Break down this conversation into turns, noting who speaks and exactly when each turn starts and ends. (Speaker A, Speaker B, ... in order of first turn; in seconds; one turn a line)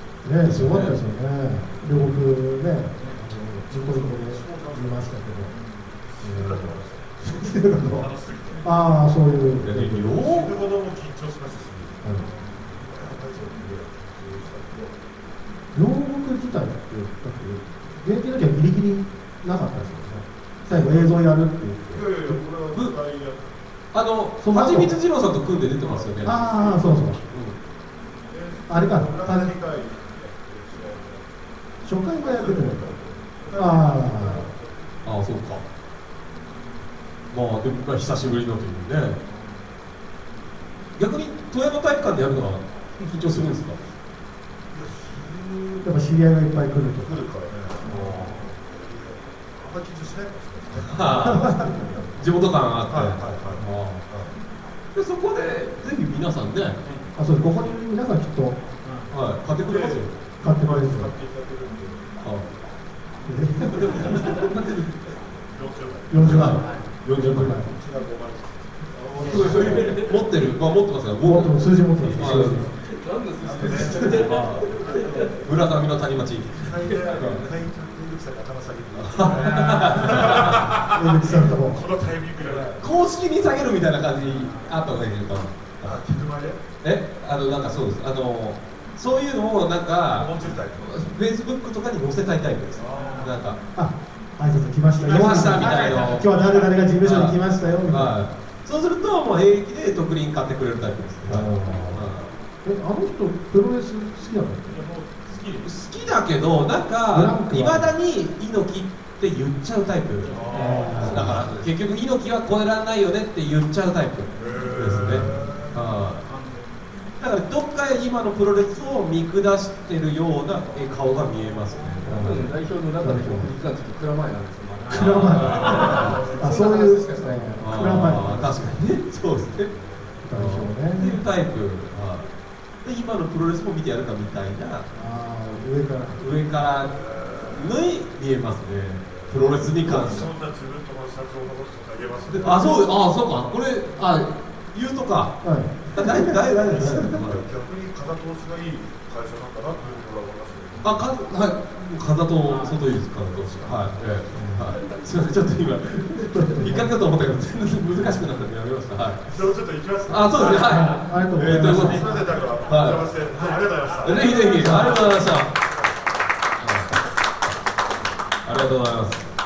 Speaker A: 0.2-5.5
Speaker B: 0.4-0.9
Speaker C: 3.0-3.2
Speaker D: 3.7-5.4
Speaker C: 5.5-5.8
Speaker D: 6.0-9.1
Speaker A: 6.2-8.1
Speaker A: 8.6-10.1
Speaker B: 9.6-10.5
Speaker D: 10.1-15.0
Speaker A: 12.0-12.3
Speaker A: 15.7-22.2
Speaker D: 20.7-21.2
Speaker D: 21.9-23.5
Speaker B: 23.9-26.4
Speaker A: 24.4-24.9
Speaker D: 25.8-27.0
Speaker A: 26.2-27.2
Speaker B: 27.3-27.5
Speaker D: 28.3-31.2
Speaker A: 28.7-29.5
Speaker A: 31.8-32.8
Speaker D: 32.2-35.1
Speaker A: 33.5-34.5
Speaker B: 35.0-35.6
Speaker B: 37.3-39.2
Speaker B: 41.0-43.8
Speaker D: 44.7-46.2
Speaker A: 45.8-47.2
Speaker D: 47.0-52.2
Speaker B: 47.8-48.5
Speaker B: 50.8-51.6
Speaker A: 51.1-52.0
Speaker B: 52.1-54.0
Speaker D: 52.9-54.3
Speaker B: 54.9-56.8
Speaker A: 57.2-58.6
Speaker C: 58.8-59.1
Speaker B: 59.1-60.1
Speaker D: 59.6-62.2
Speaker A: 60.4-61.1
Speaker B: 62.2-62.5
Speaker A: 63.2-64.1
Speaker D: 63.7-64.3
Speaker B: 63.8-64.9
Speaker E: 64.1-64.5
Speaker D: 65.4-66.8
Speaker A: 66.1-67.7
Speaker B: 66.2-67.6
Speaker C: 66.6-66.9
Speaker D: 67.3-70.1
Speaker E: 69.2-70.2
Speaker B: 69.2-72.6
Speaker A: 71.2-72.7
Speaker D: 72.0-72.8
Speaker E: 72.5-75.4
Speaker D: 73.4-75.8
Speaker A: 73.7-74.2
Speaker B: 73.7-77.4
Speaker D: 76.5-82.8
Speaker B: 78.9-80.8
Speaker C: 79.2-80.5
Speaker A: 80.9-81.8
Speaker C: 82.4-82.7
Speaker B: 82.8-86.0
Speaker C: 84.1-84.7
Speaker D: 85.8-86.6
Speaker B: 86.8-93.6
Speaker D: 90.1-90.9
Speaker D: 92.8-93.4
Speaker C: 92.9-93.3
Speaker A: 93.7-98.1
Speaker B: 95.0-96.3
Speaker C: 95.0-97.2
Speaker D: 95.2-95.7
Speaker B: 97.0-97.3
Speaker B: 97.8-102.3
Speaker A: 101.2-102.1
Speaker A: 102.6-104.8
Speaker C: 104.7-105.8
Speaker B: 105.6-116.2
Speaker A: 107.1-107.9
Speaker C: 110.2-111.6
Speaker D: 110.3-111.6
Speaker A: 110.5-111.3
Speaker D: 114.3-115.8
Speaker C: 116.2-116.8
Speaker B: 117.2-122.5
Speaker D: 121.7-122.0
Speaker A: 122.0-123.5
Speaker E: 122.0-127.6
Speaker C: 124.8-126.3
Speaker B: 124.9-126.2
Speaker A: 125.0-125.7
Speaker D: 125.3-127.1
Speaker A: 126.4-128.8
Speaker B: 127.6-129.7
Speaker D: 129.7-130.1
Speaker A: 130.2-131.2
Speaker B: 130.3-132.2
Speaker B: 132.8-134.9
Speaker A: 134.9-136.2
Speaker B: 136.2-140.3
Speaker D: 136.8-137.8
Speaker D: 139.0-143.0
Speaker B: 142.3-147.4
Speaker A: 145.4-147.2
Speaker D: 146.7-151.1
Speaker B: 150.8-159.4
Speaker C: 152.5-152.7
Speaker D: 153.1-153.9
Speaker A: 154.3-154.7
Speaker A: 156.3-156.9
Speaker D: 159.3-166.2
Speaker B: 160.1-162.1
Speaker A: 160.5-162.3
Speaker B: 162.7-163.1
Speaker C: 163.3-165.2
Speaker B: 164.0-165.5
Speaker A: 164.6-164.9
Speaker B: 166.6-166.9
Speaker B: 168.4-169.2